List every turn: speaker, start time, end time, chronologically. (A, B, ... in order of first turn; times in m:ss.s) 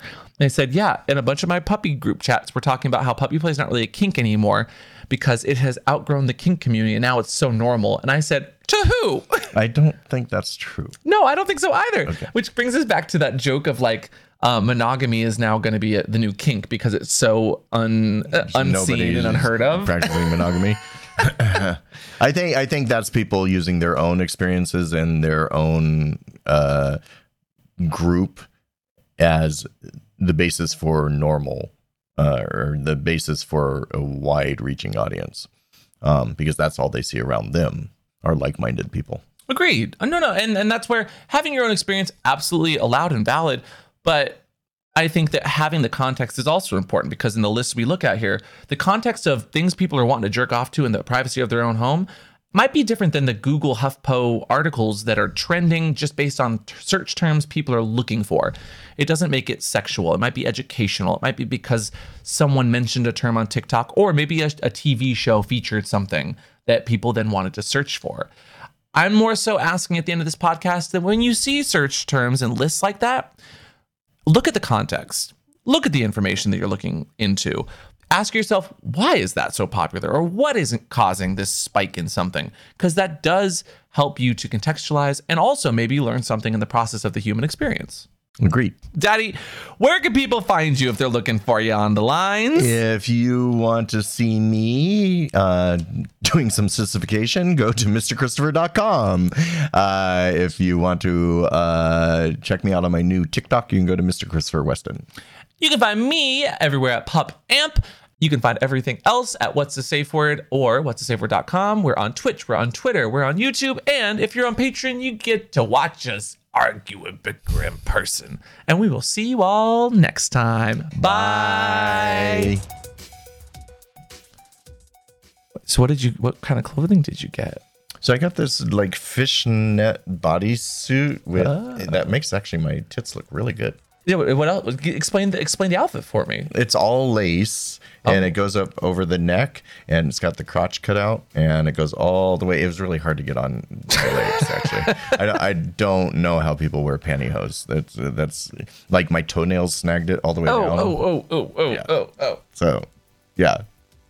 0:00.4-0:09.5 A
0:09.5-0:11.0 B
0:11.0-0:20.3 A
0:18.3-0:27.0 B
0:27.8-0:28.5 B
0:29.2-0:35.5 B
0:36.0-0:39.2 B
0:39.5-0:44.4 A
0:45.0-1:08.3 A
1:08.9-1:13.4 A
1:14.3-1:28.1 A
1:28.4-1:28.8 B
1:28.9-1:32.8 A
1:32.6-1:45.1 B
1:45.6-2:02.6 A
2:01.0-2:02.6 B
2:05.7-2:07.6 A
2:08.0-2:13.8 B
2:11.4-2:12.1 A
2:14.1-2:16.5 A
2:16.5-2:31.0 B
2:18.0-2:18.3 A
2:24.0-2:25.1 A
2:30.5-2:32.4 A
2:32.5-2:33.6 B